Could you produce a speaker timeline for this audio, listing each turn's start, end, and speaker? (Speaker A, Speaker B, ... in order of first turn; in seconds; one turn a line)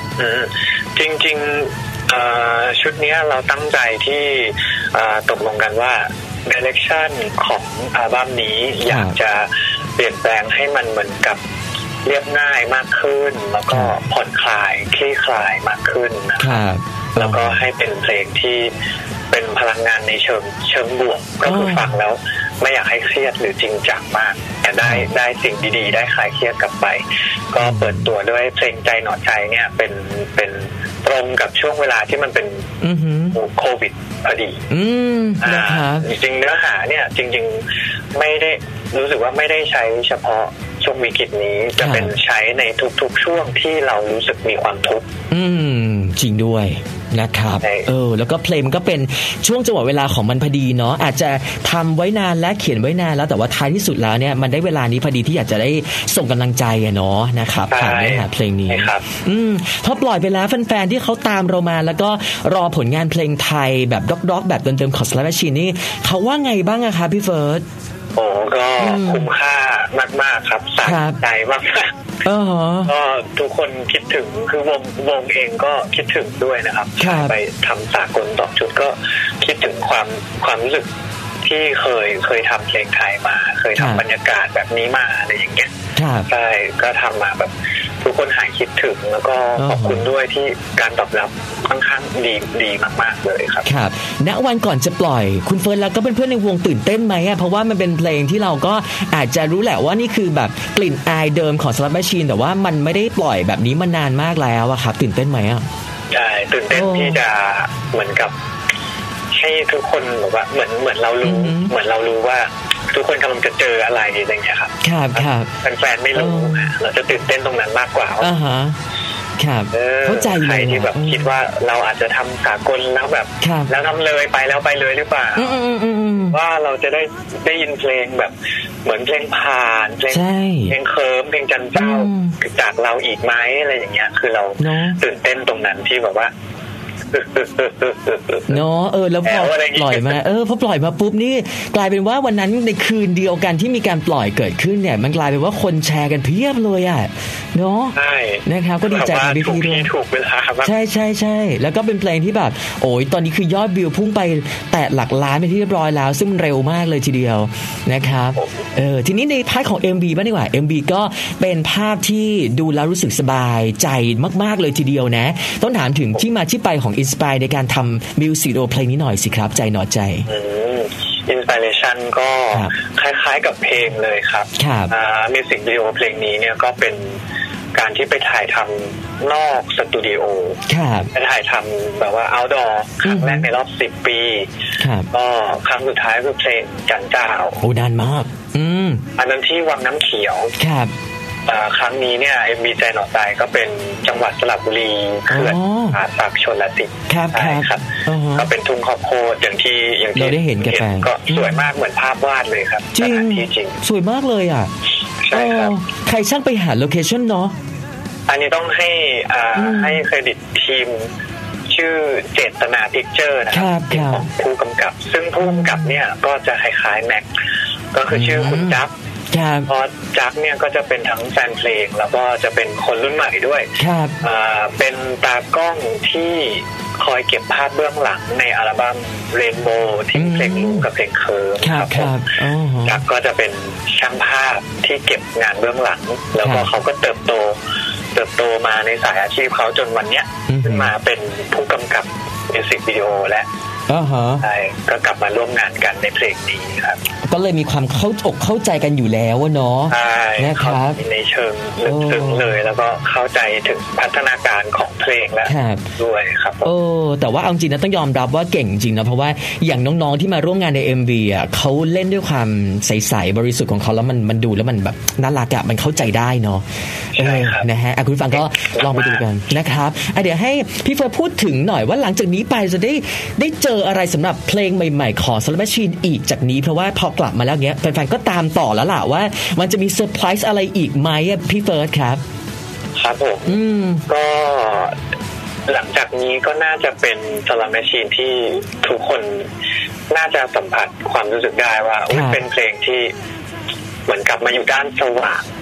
Speaker A: 0.2-11.4
Speaker B: 8.8-9.2
Speaker A: 12.1-16.6
Speaker B: 16.4-17.6
Speaker A: 17.2-18.7
Speaker A: 19.3-32.7
Speaker B: 21.4-21.9
Speaker B: 24.8-25.1
Speaker B: 27.6-28.1
Speaker B: 32.8-33.4
Speaker A: 33.3-34.6
Speaker B: 34.7-36.1
Speaker A: 35.4-45.1
Speaker B: 41.8-42.1
Speaker B: 45.3-67.6
Speaker A: 47.6-47.9
Speaker A: 57.7-59.1
Speaker A: 68.2-71.9
Speaker B: 68.8-69.3
Speaker B: 70.8-71.2
Speaker B: 72.2-72.9
Speaker A: 72.9-80.9
Speaker B: 77.0-77.3
Speaker A: 81.4-85.7
Speaker B: 83.8-84.0
Speaker B: 86.0-86.3
Speaker A: 86.3-93.7
Speaker B: 89.6-90.1
Speaker B: 93.7-105.7
Speaker A: 106.1-108.3
Speaker B: 106.7-107.2
Speaker A: 109.3-118.3
Speaker B: 111.2-111.7
Speaker B: 114.8-115.5
Speaker B: 116.2-116.7
Speaker B: 118.2-118.8
Speaker B: 119.4-121.3
Speaker A: 119.7-125.5
Speaker B: 123.4-123.7
Speaker B: 125.4-126.4
Speaker A: 126.3-136.3
Speaker B: 130.1-130.8
Speaker B: 131.8-132.4
Speaker B: 134.6-135.0
Speaker A: 137.1-138.6
Speaker B: 138.5-149.9
Speaker A: 139.2-140.2
Speaker A: 147.9-150.7
Speaker B: 150.6-170.3
Speaker A: 170.3-177.2
Speaker B: 174.6-174.9
Speaker A: 177.7-180.6
Speaker B: 180.7-181.1
Speaker A: 181.1-184.5
Speaker B: 183.0-183.5
Speaker B: 184.8-185.1
Speaker A: 185.1-187.6
Speaker B: 187.6-189.0
Speaker A: 189.2-190.5
Speaker B: 190.6-190.9
Speaker A: 191.5-203.8
Speaker B: 195.3-196.0
Speaker B: 197.1-198.5
Speaker B: 200.2-201.7
Speaker B: 202.9-204.7
Speaker A: 205.2-205.8
Speaker B: 205.3-207.6
Speaker A: 208.3-211.1
Speaker B: 209.6-210.0
Speaker A: 211.7-217.3
Speaker B: 213.5-214.3
Speaker B: 215.4-215.9
Speaker A: 217.9-218.9
Speaker B: 218.1-218.8
Speaker B: 219.3-219.7
Speaker A: 219.7-223.7
Speaker B: 223.8-224.2
Speaker A: 224.2-232.2
Speaker B: 230.2-230.9
Speaker B: 231.6-233.0
Speaker A: 232.8-237.6
Speaker B: 236.4-236.7
Speaker A: 238.1-243.5
Speaker B: 240.5-240.9
Speaker B: 243.9-244.4
Speaker A: 244.4-247.0
Speaker B: 247.3-251.0
Speaker A: 249.9-256.7
Speaker B: 251.8-252.5
Speaker B: 255.5-255.8
Speaker B: 256.6-266.6
Speaker B: 267.1-282.2
Speaker A: 267.2-267.7
Speaker A: 268.3-269.2
Speaker A: 283.0-285.0
Speaker B: 283.5-284.0
Speaker A: 285.7-289.5
Speaker A: 290.1-293.1
Speaker B: 292.1-292.4
Speaker A: 294.1-295.5